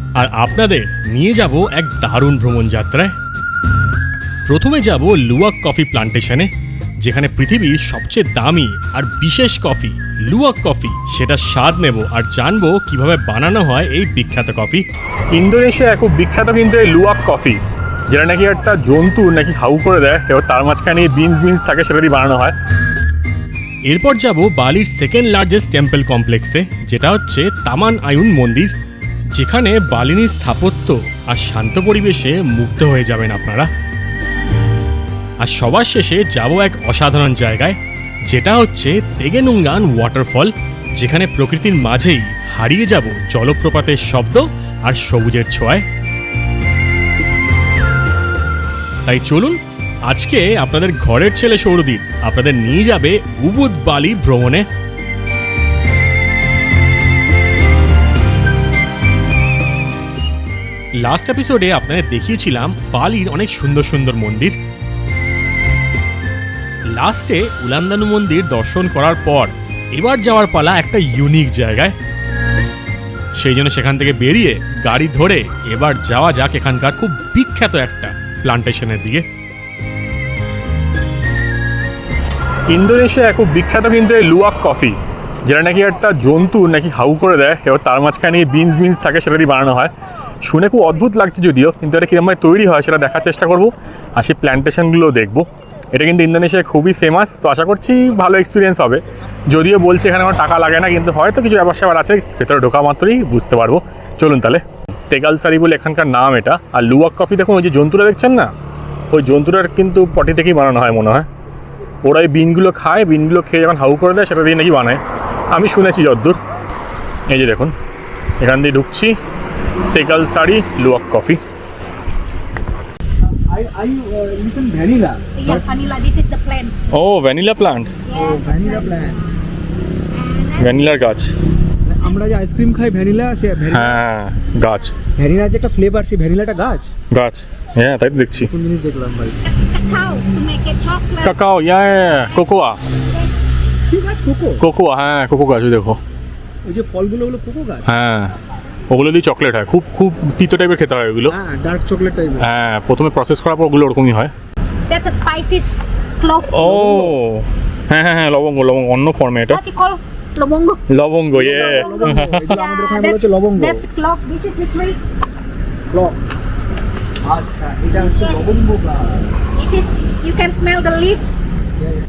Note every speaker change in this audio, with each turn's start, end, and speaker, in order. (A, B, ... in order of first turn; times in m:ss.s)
0:00.2-0:03.1 A
0:04.5-0:06.5 A
0:07.0-0:14.8 A
0:15.3-0:22.6 B
0:23.9-0:28.7 A
0:29.3-0:33.7 A
0:35.4-0:37.8 A
0:38.3-0:45.8 A
0:49.0-0:54.6 A
1:01.0-1:04.6 A
1:06.9-1:11.9 A
1:13.4-1:19.2 A
1:22.7-1:29.9 B
1:30.4-1:48.5 B
1:49.1-1:51.3 B
1:52.0-1:55.0 B
1:55.5-1:56.4 B
1:57.3-1:57.7 B
1:58.4-1:59.2 B
1:59.9-2:01.4 B
2:03.2-2:05.6 C
2:05.4-2:06.8 D
2:06.9-2:07.9 B
2:08.0-2:09.3 D
2:08.1-2:09.2 C
2:10.1-2:10.8 D
2:10.6-2:11.3 B
2:11.8-2:14.0 C
2:13.7-2:14.9 B
2:15.2-2:16.9 C
2:17.1-2:18.5 B
2:18.5-2:19.4 C
2:19.4-2:21.4 D
2:21.2-2:22.8 B
2:23.9-2:24.6 C
2:24.6-2:26.0 B
2:26.6-2:27.8 C
2:27.8-2:28.3 B
2:28.9-2:31.3 B
2:31.3-2:32.5 C
2:32.4-2:34.3 B
2:34.9-2:36.6 D
2:36.5-2:39.6 B
2:36.6-2:37.1 C
2:39.5-2:40.8 D
2:40.9-2:42.6 B
2:41.3-2:43.8 C
2:41.6-2:45.1 D
2:45.9-2:46.2 C
2:47.2-2:49.2 C
2:48.0-2:48.7 D
2:49.6-2:51.2 D